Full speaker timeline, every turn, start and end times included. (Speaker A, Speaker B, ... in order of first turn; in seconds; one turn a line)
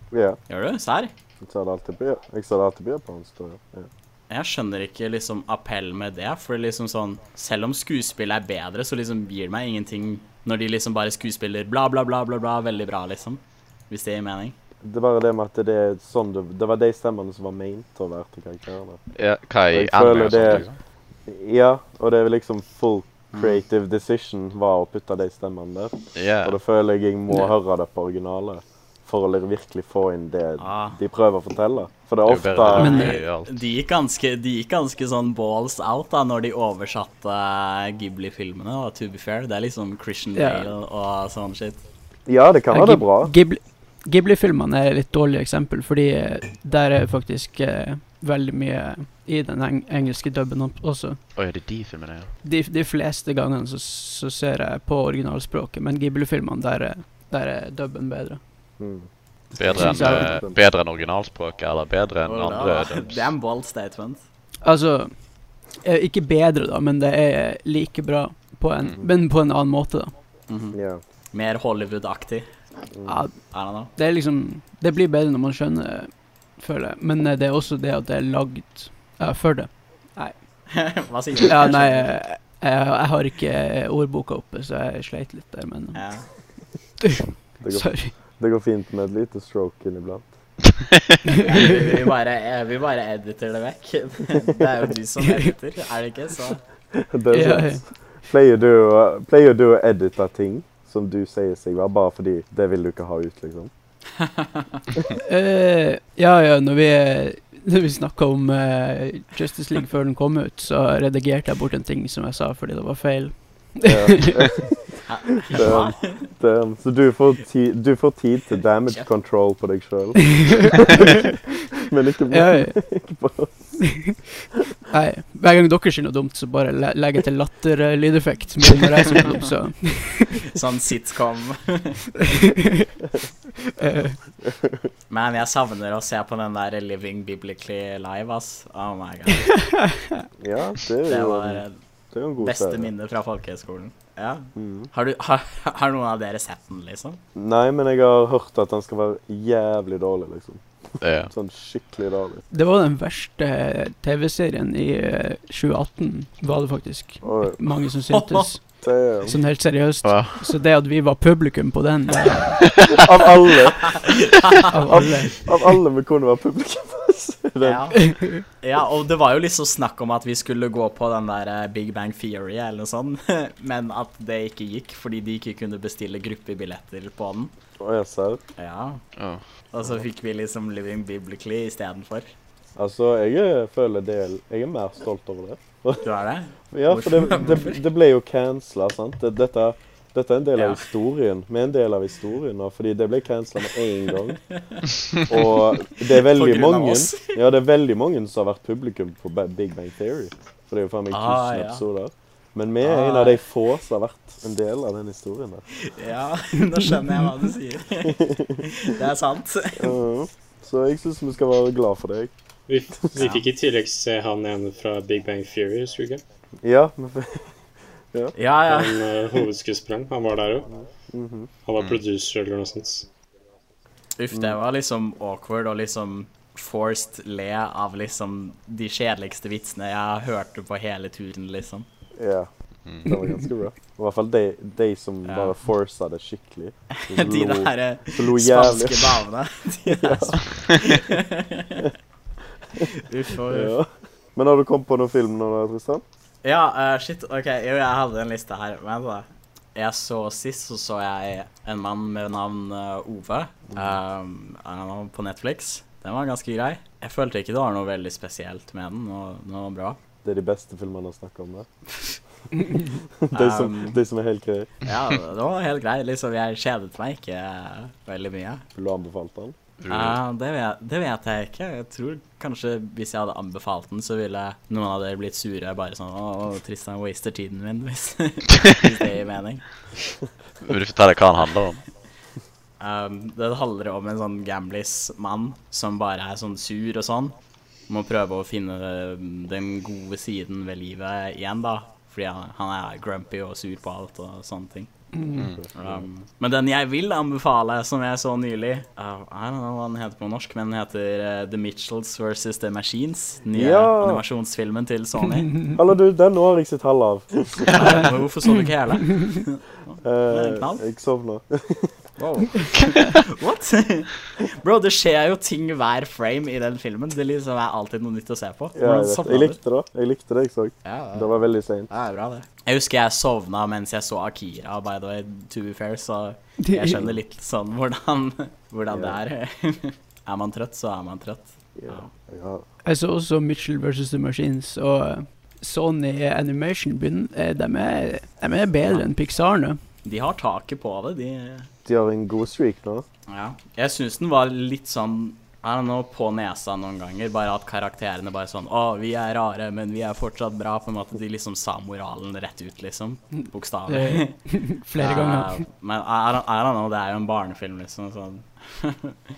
Speaker A: 0.1-0.4
Speaker B: 0.5-1.1
Speaker A: 1.4-3.9
Speaker B: 4.3-14.6
Speaker A: 14.8-19.0
Speaker C: 19.1-20.8
Speaker A: 19.7-20.6
Speaker A: 21.2-33.0
Speaker B: 23.3-23.6
Speaker C: 26.1-26.6
Speaker B: 30.6-31.0
Speaker C: 32.2-33.5
Speaker B: 32.6-41.8
Speaker D: 32.8-33.2
Speaker D: 40.4-40.7
Speaker A: 42.2-43.3
Speaker D: 42.7-51.2
Speaker C: 51.4-52.3
Speaker D: 52.4-58.4
Speaker A: 58.8-59.1
Speaker C: 59.5-63.3
Speaker A: 59.6-60.6
Speaker D: 59.7-60.4
Speaker B: 62.2-64.2
Speaker D: 64.6-65.1
Speaker D: 65.8-70.1
Speaker B: 70.5-70.8
Speaker A: 70.7-71.0
Speaker B: 71.3-72.5
Speaker A: 72.9-73.2
Speaker D: 73.1-80.3
Speaker B: 73.5-73.9
Speaker B: 80.7-82.1
Speaker D: 81.4-86.0
Speaker B: 85.9-86.3
Speaker D: 87.1-88.1
Speaker A: 87.6-90.2
Speaker B: 91.4-96.6
Speaker D: 95.2-95.5
Speaker A: 96.9-103.7
Speaker D: 97.3-97.8
Speaker B: 104.2-104.7
Speaker D: 105.2-114.5
Speaker A: 113.8-123.5
Speaker B: 115.1-116.3
Speaker D: 122.3-122.8
Speaker D: 124.9-130.5
Speaker B: 130.5-132.0
Speaker D: 132.3-132.9
Speaker D: 133.7-134.2
Speaker A: 134.4-134.9
Speaker B: 135.1-139.7
Speaker A: 140.4-142.9
Speaker B: 141.1-141.8
Speaker B: 142.4-147.2
Speaker A: 144.6-144.9
Speaker A: 147.3-150.6
Speaker C: 151.0-151.3
Speaker A: 151.2-152.4
Speaker D: 152.5-162.7
Speaker A: 157.2-157.6
Speaker B: 158.1-158.5
Speaker A: 158.8-159.4
Speaker C: 160.0-160.5
Speaker A: 163.0-163.9
Speaker B: 163.9-164.7
Speaker D: 164.7-165.5
Speaker A: 164.9-167.8
Speaker B: 167.6-177.5
Speaker A: 177.8-178.4
Speaker B: 178.6-179.0
Speaker B: 179.7-182.3
Speaker A: 182.8-186.1
Speaker B: 186.0-187.8
Speaker A: 186.7-194.4
Speaker B: 190.5-190.8
Speaker B: 194.5-194.8
Speaker A: 195.3-205.7
Speaker B: 196.1-197.4
Speaker B: 201.1-201.8
Speaker B: 202.8-203.4
Speaker B: 205.8-209.9
Speaker A: 208.0-208.7
Speaker A: 209.8-212.3
Speaker E: 212.7-216.2
Speaker A: 216.6-217.5
Speaker B: 218.3-219.0
Speaker E: 218.7-220.7
Speaker A: 220.7-221.5
Speaker E: 221.6-223.1
Speaker B: 224.2-231.8
Speaker A: 232.2-232.5
Speaker A: 233.0-239.2
Speaker B: 235.3-235.5
Speaker B: 237.1-241.8
Speaker A: 239.8-240.4
Speaker B: 243.0-243.7
Speaker A: 243.5-246.0
Speaker B: 246.4-260.0
Speaker A: 260.2-261.7
Speaker A: 263.2-264.7
Speaker B: 263.3-264.0
Speaker B: 264.8-268.6
Speaker A: 268.7-269.5
Speaker C: 269.8-270.2
Speaker B: 269.9-279.6
Speaker C: 280.6-281.8
Speaker B: 282.8-287.3
Speaker B: 287.9-294.9
Speaker D: 295.2-295.4
Speaker C: 295.3-295.6
Speaker A: 295.5-296.1
Speaker B: 295.7-305.7
Speaker A: 303.5-304.2
Speaker A: 305.7-307.7
Speaker B: 307.7-310.8
Speaker A: 310.0-311.9
Speaker B: 312.2-319.6
Speaker A: 318.7-321.9
Speaker B: 320.8-332.1
Speaker D: 326.6-327.0
Speaker A: 328.9-329.2
Speaker A: 331.8-332.6
Speaker D: 332.8-339.8
Speaker B: 340.0-341.7
Speaker A: 341.8-343.1
Speaker B: 343.3-359.2
Speaker D: 353.9-355.6